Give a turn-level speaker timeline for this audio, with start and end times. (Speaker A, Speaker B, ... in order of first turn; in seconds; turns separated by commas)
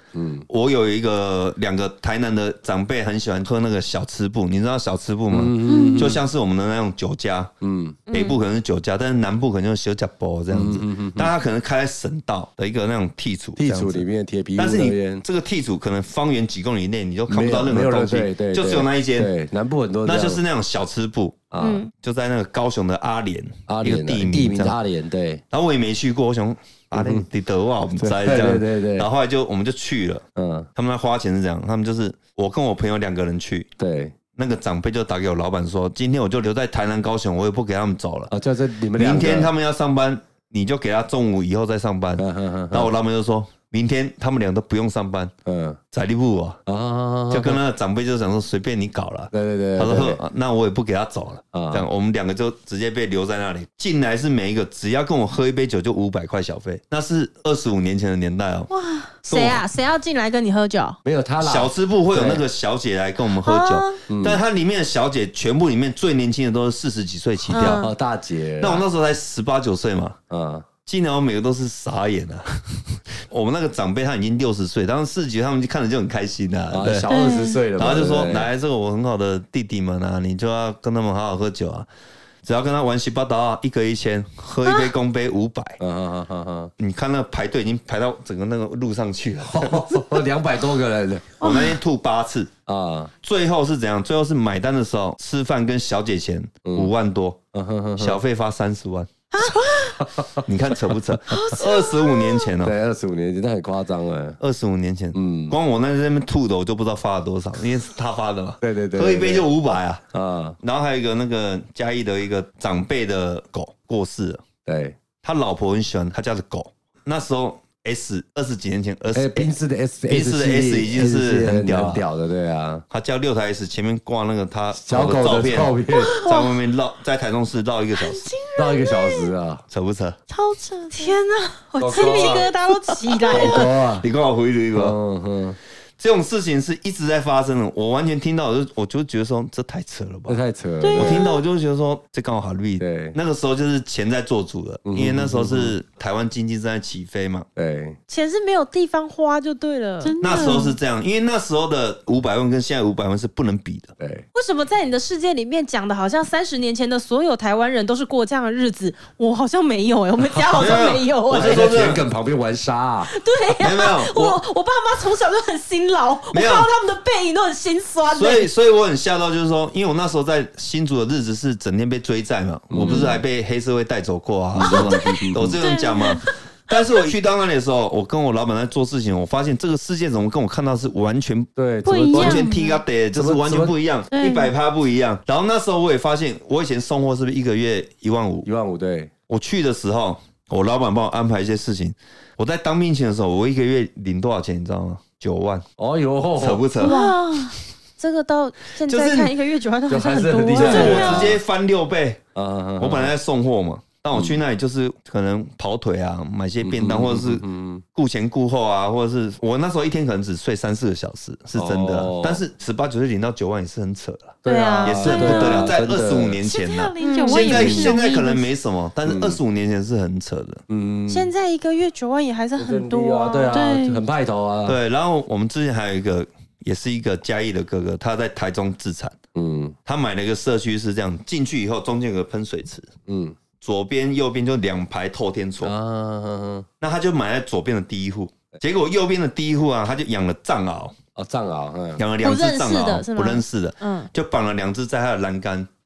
Speaker A: 0.1-0.5, Speaker B: 0.5-7.5, Speaker A: 5.3-6.2, Speaker C: 5.7-6.2, Speaker A: 7.6-8.0, Speaker B: 8.1-14.1, Speaker D: 8.1-8.4, Speaker A: 10.5-11.3, Speaker A: 13.6-15.2, Speaker B: 14.6-19.3, Speaker A: 17.3-20.4, Speaker B: 20.1-24.8, Speaker A: 21.5-21.8, Speaker D: 21.6-21.9, Speaker A: 23.7-25.4, Speaker B: 25.5-30.2, Speaker A: 26.9-27.3, Speaker A: 28.0-29.1, Speaker A: 30.4-30.7, Speaker B: 30.8-33.7, Speaker A: 33.8-34.2, Speaker B: 34.3-38.3, Speaker A: 38.3-39.5, Speaker B: 39.0-45.3, Speaker A: 42.2-42.9, Speaker A: 45.5-45.8, Speaker B: 45.9-46.6, Speaker A: 46.7-47.6, Speaker B: 47.3-58.7, Speaker A: 49.3-50.2, Speaker A: 51.5-51.9, Speaker C: 58.7-59.1, Speaker D: 59.2-61.0, Speaker B: 59.3-59.6, Speaker A: 61.0-62.4, Speaker B: 61.4-67.9, Speaker D: 63.4-64.0, Speaker A: 64.1-64.4, Speaker D: 67.5-67.9, Speaker A: 67.5-68.9, Speaker B: 68.6-70.2, Speaker A: 70.3-70.7, Speaker B: 70.8-77.1, Speaker A: 76.7-78.5, Speaker C: 77.1-77.6, Speaker B: 77.8-81.9, Speaker B: 82.4-85.8, Speaker D: 84.7-84.9, Speaker A: 85.8-86.7, Speaker B: 86.8-90.2, Speaker A: 89.4-91.4, Speaker B: 91.4-92.5, Speaker C: 91.4-91.8, Speaker A: 92.7-93.1, Speaker B: 93.2-97.4, Speaker A: 96.7-96.9, Speaker A: 97.5-98.2, Speaker B: 98.0-99.1, Speaker C: 99.4-100.0, Speaker A: 100.0-100.4, Speaker B: 100.5-102.8, Speaker C: 101.3-102.2, Speaker D: 101.4-101.8, Speaker A: 102.6-104.4, Speaker B: 104.4-110.0, Speaker A: 105.1-105.6, Speaker A: 108.6-109.5, Speaker A: 110.1-110.6, Speaker B: 110.6-114.5, Speaker A: 114.7-115.0, Speaker B: 115.2-119.5, Speaker A: 119.1-122.8, Speaker B: 120.1-122.0, Speaker B: 122.9-128.3, Speaker A: 124.8-126.2, Speaker C: 126.0-126.5, Speaker C: 127.9-129.3, Speaker A: 128.6-129.6, Speaker B: 129.7-130.2, Speaker C: 130.3-131.2, Speaker D: 130.9-133.7, Speaker A: 131.8-132.5, Speaker A: 133.3-134.1, Speaker B: 133.3-135.0, Speaker A: 134.7-135.6, Speaker B: 136.0-140.4, Speaker A: 140.3-141.3, Speaker C: 140.8-141.4, Speaker B: 140.9-147.5, Speaker A: 142.8-143.2, Speaker A: 144.8-145.8, Speaker A: 147.6-148.0, Speaker D: 148.1-150.7, Speaker C: 150.0-150.8, Speaker B: 150.2-153.9, Speaker A: 154.0-154.2, Speaker D: 154.3-161.7, Speaker A: 160.3-163.1, Speaker B: 160.6-162.0, Speaker D: 163.1-168.5, Speaker B: 163.6-164.4, Speaker B: 166.3-166.7, Speaker B: 168.1-181.5, Speaker A: 172.7-173.2, Speaker D: 172.9-173.1, Speaker A: 174.6-175.6, Speaker D: 174.7-174.9, Speaker C: 175.6-176.2, Speaker D: 175.6-176.3, Speaker A: 181.6-182.5, Speaker C: 181.9-182.8, Speaker B: 182.1-188.5, Speaker A: 183.1-183.8, Speaker C: 184.1-184.5, Speaker A: 188.4-189.1, Speaker B: 189.3-195.7, Speaker A: 195.8-196.7, Speaker B: 196.4-197.0, Speaker C: 196.8-197.6, Speaker D: 196.8-201.2, Speaker B: 198.9-199.3, Speaker A: 199.9-201.4, Speaker C: 200.6-201.4, Speaker B: 200.6-202.2, Speaker A: 202.3-203.1, Speaker B: 202.8-220.6, Speaker A: 204.1-204.4, Speaker A: 206.6-207.8, Speaker A: 211.6-212.4, Speaker A: 214.4-216.4, Speaker D: 214.4-215.7, Speaker C: 215.1-215.7, Speaker C: 216.4-218.5, Speaker D: 217.0-217.8, Speaker A: 217.5-217.9, Speaker A: 219.1-219.4, Speaker A: 220.7-221.3, Speaker D: 221.1-223.6, Speaker A: 222.6-224.8, Speaker C: 223.5-224.0, Speaker B: 224.7-229.2, Speaker A: 229.3-229.8, Speaker B: 229.8-232.9, Speaker A: 233.1-233.4, Speaker B: 233.6-235.7, Speaker A: 235.6-236.7, Speaker B: 236.8-241.0, Speaker A: 241.2-242.0, Speaker B: 242.0-245.7, Speaker D: 242.2-244.1